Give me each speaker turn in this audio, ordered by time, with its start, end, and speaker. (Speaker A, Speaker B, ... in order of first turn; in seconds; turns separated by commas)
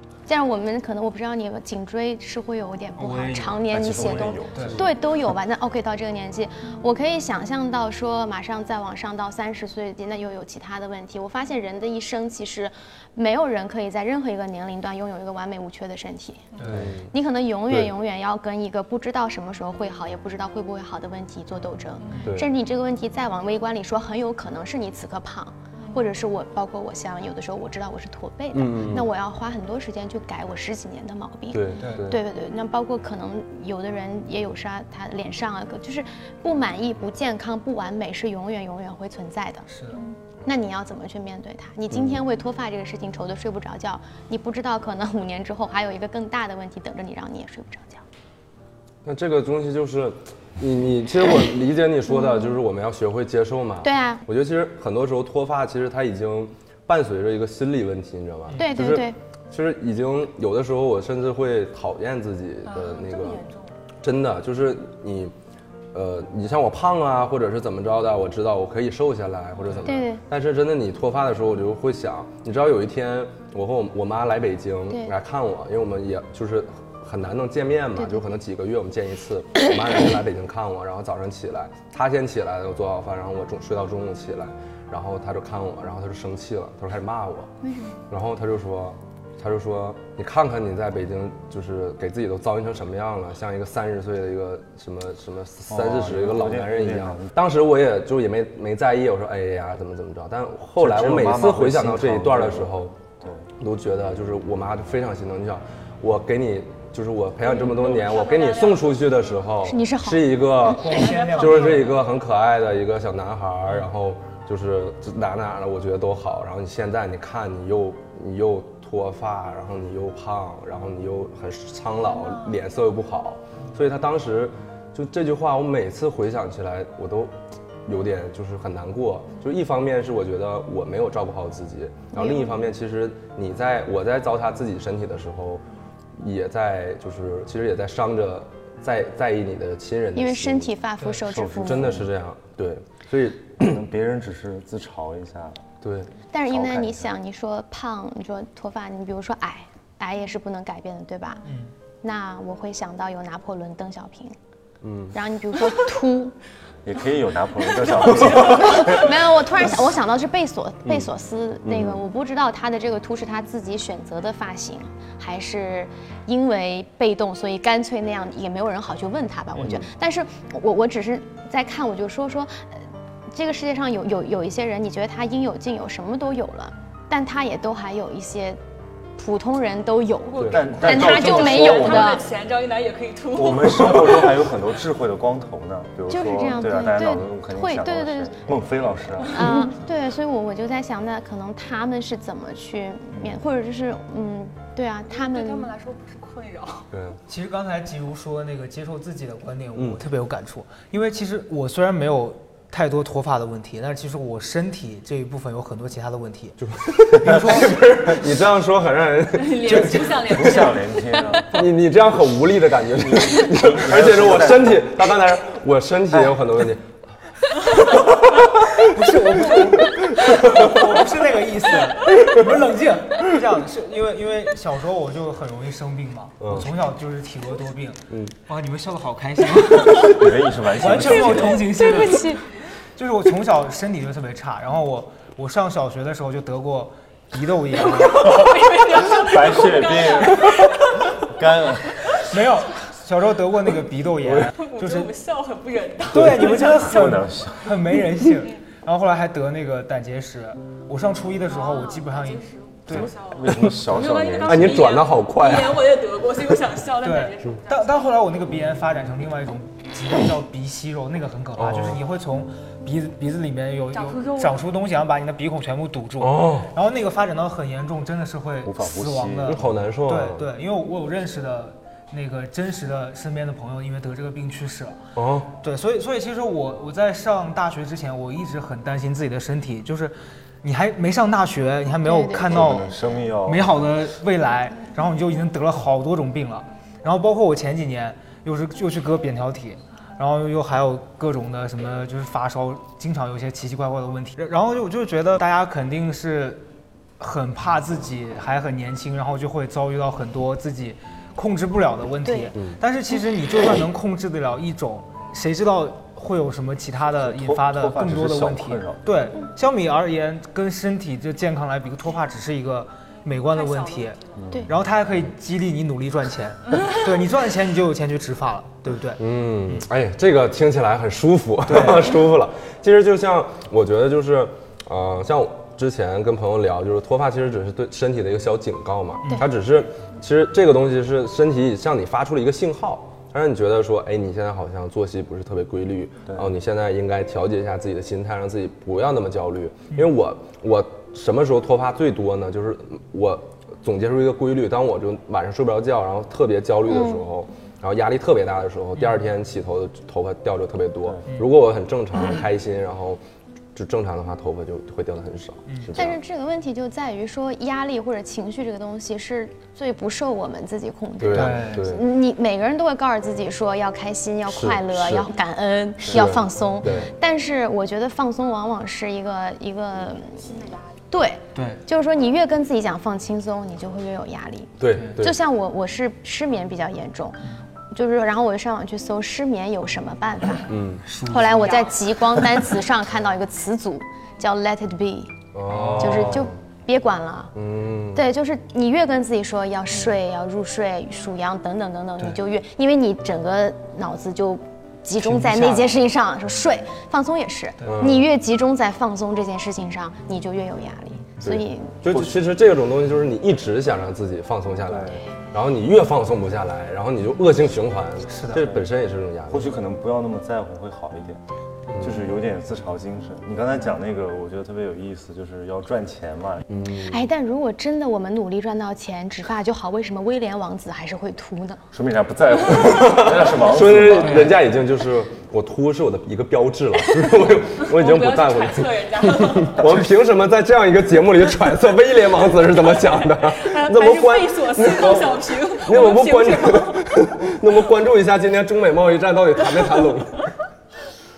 Speaker A: 0.3-16.5, Speaker B: 3.0-3.6, Speaker C: 3.7-4.9, Speaker B: 4.5-4.8, Speaker B: 16.6-16.9, Speaker C: 16.6-16.9, Speaker D: 16.7-17.0, Speaker A: 17.1-39.7, Speaker E: 22.0-22.3, Speaker E: 25.8-26.1, Speaker D: 28.5-29.1, Speaker D: 31.5-32.2, Speaker B: 31.8-32.1, Speaker B: 39.7-40.0, Speaker A: 40.4-48.0, Speaker D: 49.0-63.4, Speaker A: 52.1-52.6, Speaker A: 53.8-54.2, Speaker B: 58.5-58.8, Speaker A: 58.5-59.2, Speaker E: 62.6-63.7, Speaker D: 64.0-65.3, Speaker D: 65.9-87.5, Speaker A: 69.8-70.2, Speaker A: 78.0-78.3, Speaker A: 87.6-88.0, Speaker D: 88.1-103.0, Speaker C: 95.7-97.3, Speaker C: 100.8-103.4, Speaker D: 103.6-127.3, Speaker E: 107.4-109.2, Speaker A: 109.6-110.4, Speaker B: 110.6-112.0, Speaker E: 110.8-112.0, Speaker E: 122.0-122.6, Speaker D: 127.8-135.6, Speaker A: 132.1-132.7, Speaker D: 136.2-140.7, Speaker A: 140.1-141.9, Speaker C: 141.2-142.1, Speaker D: 141.6-143.8, Speaker C: 143.6-145.6, Speaker D: 145.8-146.1, Speaker A: 146.3-151.4, Speaker C: 146.4-147.1, Speaker B: 151.4-151.7, Speaker A: 152.0-154.3, Speaker D: 154.8-155.2, Speaker A: 155.1-156.3, Speaker C: 156.8-159.1, Speaker A: 158.3-178.6, Speaker D: 161.7-162.0, Speaker D: 169.6-169.8, Speaker A: 179.2-182.2, Speaker E: 180.4-184.3, Speaker C: 180.5-182.2, Speaker C: 183.3-189.5, Speaker A: 186.1-188.4, Speaker A: 189.3-195.7, Speaker C: 193.1-193.4, Speaker E: 195.1-196.9, Speaker D: 196.9-197.2, Speaker B: 197.3-206.6, Speaker D: 199.7-200.0, Speaker D: 206.6-210.3, Speaker B: 207.2-208.1, Speaker E: 209.3-210.8, Speaker C: 209.6-211.6, Speaker D: 211.5-216.9, Speaker C: 213.0-215.0, Speaker D: 217.7-218.8, Speaker B: 218.8-232.4, Speaker D: 219.4-220.8, Speaker D: 226.4-226.7, Speaker C: 229.9-231.8, Speaker E: 231.0-232.4, Speaker B: 232.9-238.3, Speaker E: 237.9-241.2, Speaker C: 239.1-240.6, Speaker C: 241.3-242.0, Speaker B: 242.2-245.1, Speaker D: 244.2-244.5, Speaker E: 244.5-246.8, Speaker B: 246.1-253.1, Speaker C: 246.7-247.7, Speaker E: 251.4-258.2, Speaker C: 252.9-254.9, Speaker D: 254.4-255.9, Speaker B: 257.0-275.0, Speaker D: 261.6-262.0, Speaker E: 263.9-264.6, Speaker D: 266.2-266.7, Speaker C: 268.6-269.6, Speaker D: 269.5-270.5, Speaker D: 275.1-275.5, Speaker B: 275.6-282.9, Speaker A: 282.0-282.7, Speaker C: 282.4-283.7, Speaker B: 283.4-296.7, Speaker B: 297.2-319.8, Speaker A: 302.2-302.5, Speaker C: 307.2-309.3, Speaker E: 313.4-314.2, Speaker C: 314.4-314.7, Speaker D: 319.2-353.2, Speaker B: 321.6-322.2, Speaker A: 346.9-347.2, Speaker B: 348.9-349.2, Speaker D: 353.7-356.2, Speaker A: 355.9-370.4, Speaker D: 361.2-362.0, Speaker B: 361.3-361.9, Speaker D: 364.5-365.3, Speaker C: 366.0-366.3, Speaker D: 366.0-367.1, Speaker E: 370.4-370.9, Speaker A: 371.1-377.4, Speaker B: 371.5-371.8, Speaker D: 374.8-375.4, Speaker A: 377.9-380.7, Speaker D: 380.7-381.1, Speaker B: 381.1-381.8, Speaker A: 381.2-385.3, Speaker E: 381.6-381.9, Speaker D: 385.5-386.5, Speaker B: 385.7-386.5, Speaker A: 386.0-387.5, Speaker D: 387.5-388.3, Speaker A: 388.1-402.0, Speaker B: 395.2-396.0, Speaker D: 397.8-398.3, Speaker D: 401.4-409.7, Speaker C: 402.1-402.4, Speaker C: 404.9-405.2, Speaker B: 408.3-408.7, Speaker C: 408.6-408.9, Speaker C: 409.5-411.4, Speaker D: 411.9-412.2, Speaker C: 412.0-416.6, Speaker D: 416.7-417.2, Speaker A: 417.1-421.8, Speaker C: 421.9-424.6, Speaker D: 422.7-440.5, Speaker B: 424.2-424.6, Speaker E: 427.8-429.9, Speaker E: 433.5-437.1